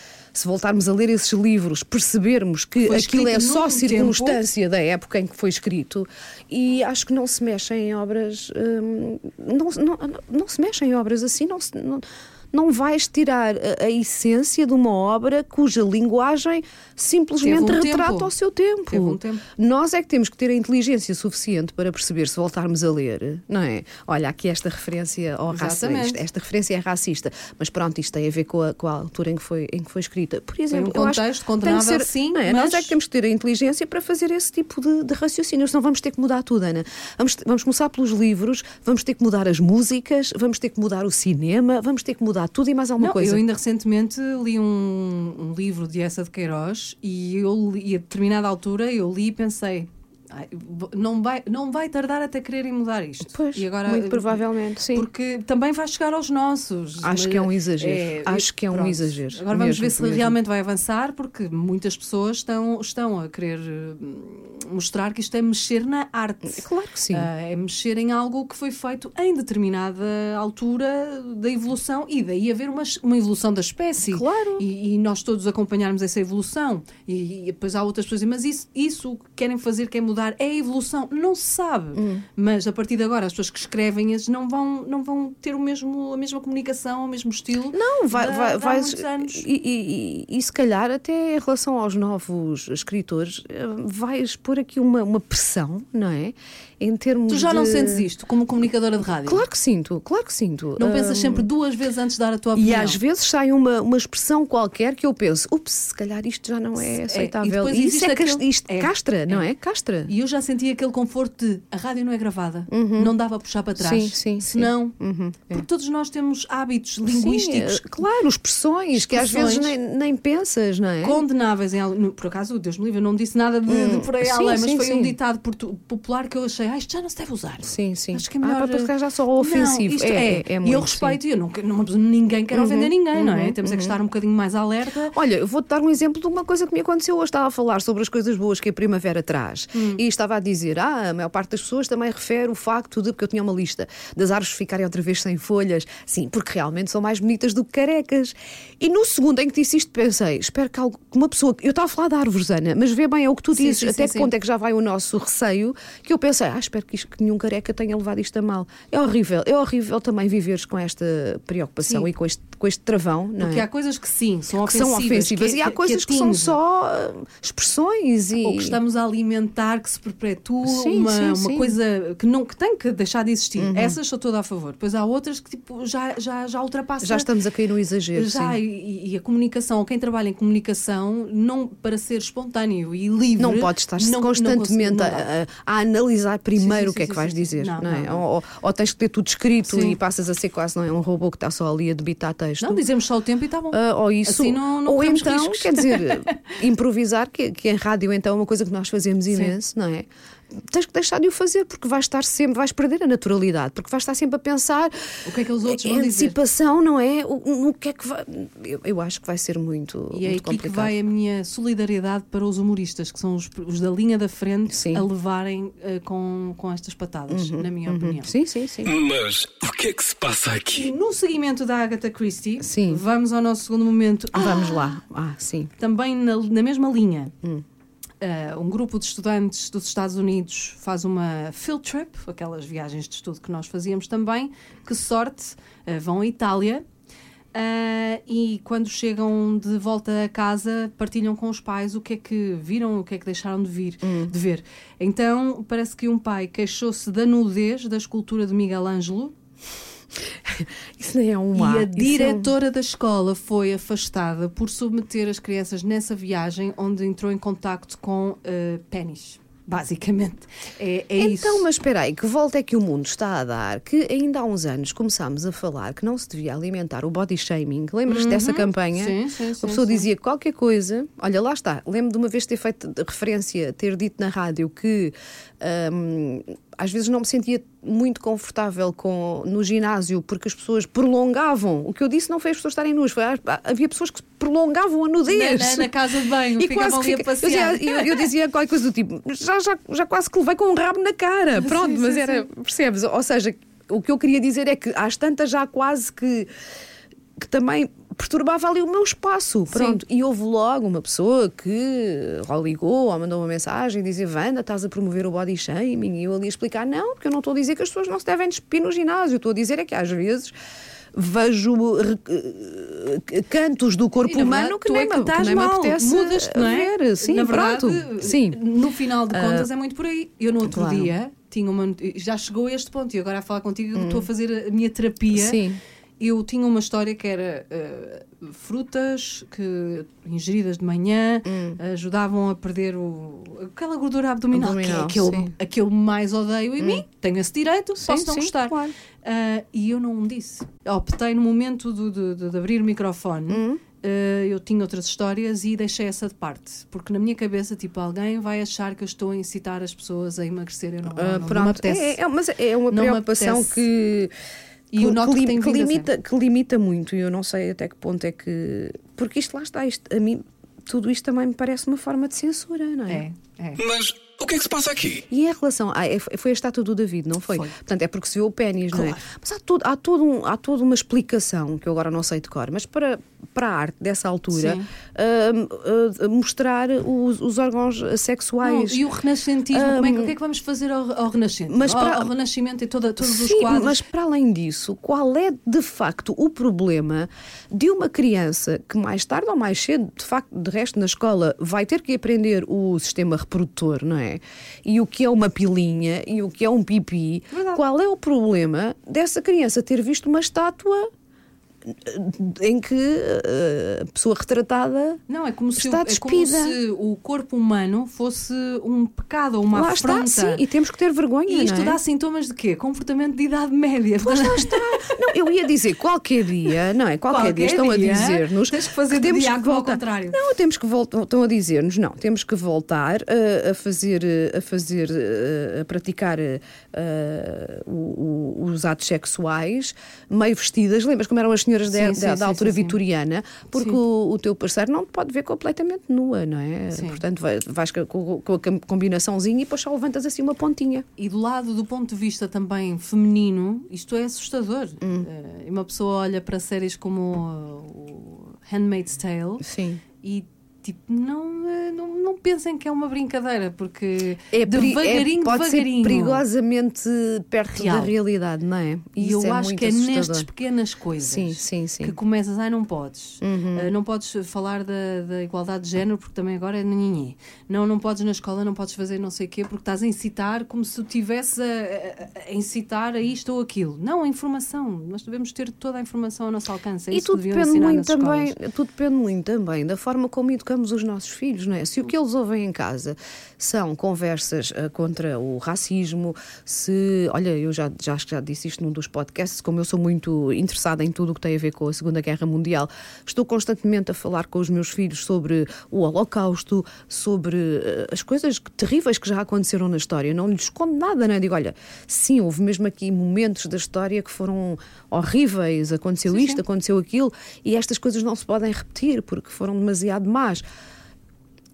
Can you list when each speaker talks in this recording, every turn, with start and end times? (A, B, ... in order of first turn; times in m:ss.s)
0:00.3-0:43.4 A
0:02.8-0:04.4 B
0:17.4-0:18.3 B
0:18.9-0:19.4 B
0:25.5-0:26.2 B
0:30.7-0:33.0 B
0:43.0-1:29.5 B
0:53.3-0:55.1 A
0:57.0-1:00.4 A
1:06.4-1:07.3 A
1:14.0-1:14.6 A
1:21.9-1:22.2 A
1:27.7-1:38.1 A
1:37.3-1:39.4 B
1:39.2-1:41.5 A
1:40.8-1:43.0 B
1:42.5-1:50.1 A
1:46.8-1:49.5 B
1:50.1-1:55.0 B
1:52.7-1:53.1 A
1:53.8-1:55.6 A
1:55.5-1:58.0 B
1:57.1-2:01.2 A
1:58.9-1:59.7 B
2:01.0-2:15.1 B
2:03.7-2:05.2 A
2:07.6-2:11.2 A
2:12.5-2:14.0 A
2:15.1-2:43.6 A
2:19.7-2:20.0 B
2:33.5-2:34.3 B
2:41.8-2:42.1 B
2:43.4-2:46.6 B
2:44.6-2:48.8 A
2:48.4-2:57.3 B
2:50.6-2:51.8 A
2:53.6-2:54.0 A
2:57.0-2:58.6 A
2:58.1-3:05.3 B
3:03.4-3:12.8 A
3:06.6-3:08.2 B
3:09.6-3:10.0 B
3:12.6-3:16.6 B
3:13.7-3:20.1 A
3:19.3-3:19.6 B
3:20.6-3:30.9 A
3:25.2-3:26.4 B
3:30.1-3:38.3 B
3:34.7-3:35.0 A
3:37.3-3:38.9 A
3:38.8-3:40.9 C
3:40.7-3:44.9 B
3:42.6-3:43.0 A
3:44.3-3:45.7 A
3:45.8-3:47.3 B
3:48.2-3:56.8 B
3:57.5-4:09.3 B
4:04.0-4:04.3 A
4:10.3-4:12.5 A
4:11.5-4:21.7 B
4:21.2-4:45.9 A
4:28.0-4:30.1 B
4:45.2-4:48.3 B
4:46.6-4:56.5 A
4:51.5-4:52.5 B
4:57.4-5:10.5 A
4:59.7-5:00.0 B
5:11.1-5:18.6 A
5:14.2-5:25.6 B
5:19.3-5:19.7 A
5:20.6-5:21.1 A
5:23.9-5:24.3 A
5:25.3-5:25.8 A
5:26.2-5:52.2 B
5:31.4-5:31.8 A
5:34.5-5:35.5 A
5:38.0-5:38.9 A
5:43.5-5:43.8 A
5:51.1-5:54.3 A
5:52.9-5:53.9 B
5:54.9-5:56.1 B
5:54.9-6:03.2 A
6:03.1-6:03.8 B
6:03.8-6:05.2 C
6:05.3-6:19.0 A
6:08.9-6:09.2 B
6:14.5-6:14.9 B
6:18.6-6:24.0 B
6:19.7-6:20.3 A
6:21.7-6:22.3 A
6:23.2-6:41.1 A
6:37.5-6:37.8 B
6:41.9-6:45.2 A
6:45.3-6:50.6 B
6:45.7-6:46.8 A
6:49.7-6:52.0 A
6:51.5-6:55.2 B
6:54.2-7:21.0 A
6:57.3-7:00.4 B
7:11.9-7:13.0 B
7:13.7-7:14.0 B
7:16.9-7:17.2 B
7:21.2-7:29.6 B
7:25.0-7:25.3 A
7:29.6-7:30.0 A
7:30.2-7:36.4 B
7:34.5-7:40.5 A
7:37.7-7:38.1 B
7:39.2-7:58.6 B
7:41.2-7:42.1 A
7:43.4-7:43.9 A
7:57.1-8:30.6 A
8:26.3-8:26.6 B